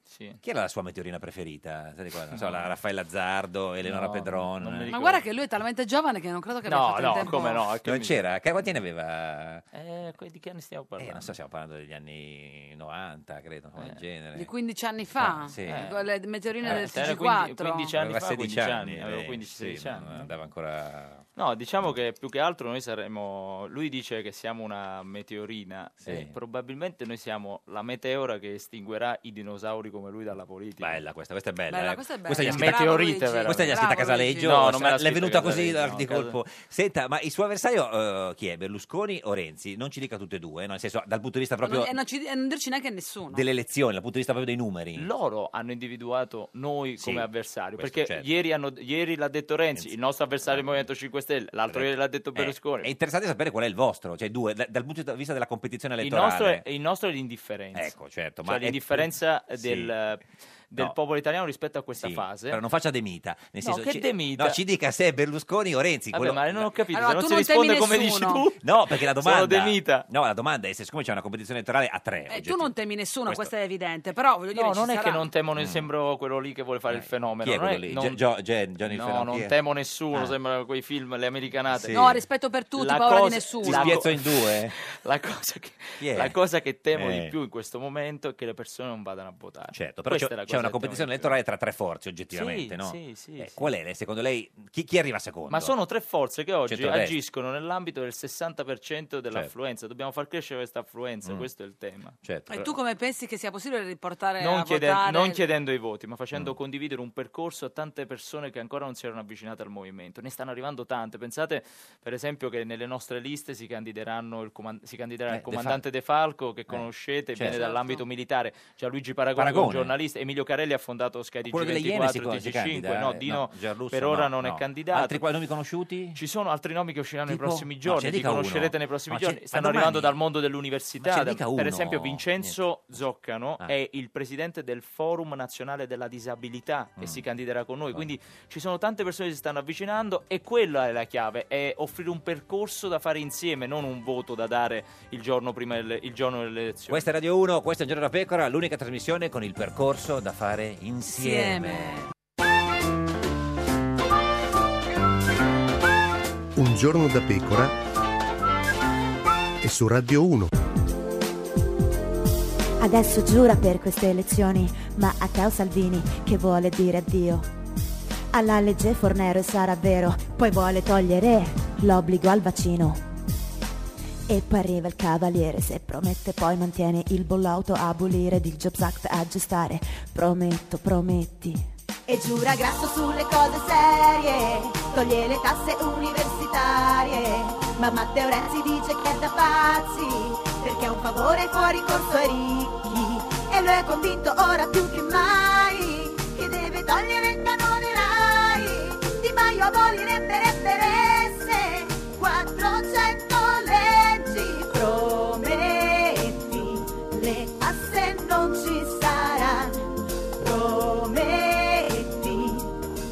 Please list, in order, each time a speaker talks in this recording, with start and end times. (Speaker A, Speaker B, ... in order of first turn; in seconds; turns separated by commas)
Speaker A: 0.1-0.4, Speaker B: 0.4-4.9, Speaker A: 2.3-2.7, Speaker A: 3.8-5.2, Speaker C: 4.9-7.7, Speaker A: 6.7-8.2, Speaker B: 7.8-9.6, Speaker A: 9.7-11.3, Speaker B: 11.0-14.5, Speaker C: 14.3-17.9, Speaker B: 15.2-15.9, Speaker A: 15.6-16.0, Speaker A: 16.6-20.3, Speaker B: 16.6-16.9, Speaker B: 17.9-21.2, Speaker A: 21.4-31.0, Speaker B: 26.0-26.3, Speaker B: 30.8-41.9, Speaker C: 31.7-34.5, Speaker A: 32.4-36.4, Speaker C: 41.6-43.4, Speaker B: 43.3-45.1, Speaker A: 45.0-52.9, Speaker B: 47.0-48.4, Speaker B: 49.7-50.9, Speaker B: 51.7-56.6, Speaker A: 56.0-62.6, Speaker B: 57.7-59.9, Speaker B: 62.0-66.7, Speaker A: 63.6-64.6, Speaker A: 66.1-70.1, Speaker C: 66.9-68.4, Speaker B: 68.6-72.7, Speaker C: 72.3-75.3, Speaker A: 74.5-78.2, Speaker B: 75.6-75.9, Speaker B: 76.9-79.5, Speaker A: 78.8-82.1, Speaker B: 81.7-82.2, Speaker C: 81.9-84.0, Speaker A: 82.7-91.3, Speaker B: 83.6-84.7, Speaker B: 86.0-86.3, Speaker B: 86.9-87.3, Speaker B: 89.7-95.7, Speaker A: 92.3-93.7, Speaker A: 95.5-102.2, Speaker B: 96.7-97.2, Speaker B: 102.2-102.7, Speaker C: 102.5-105.4, Speaker A: 104.4-125.2, Speaker B: 115.3-115.8, Speaker B: 116.7-117.5, Speaker C: 117.5-118.0, Speaker B: 119.3-119.9, Speaker B: 121.4-126.2, Speaker A: 126.1-147.0, Speaker B: 127.3-130.1, Speaker B: 131.0-132.5, Speaker B: 146.9-152.0, Speaker C: 151.1-152.1, Speaker D: 156.5-157.8, Speaker D: 159.6-160.5, Speaker E: 162.8-167.5, Speaker E: 168.3-173.0, Speaker E: 174.3-181.6, Speaker F: 182.1-209.8, Speaker F: 210.4-212.7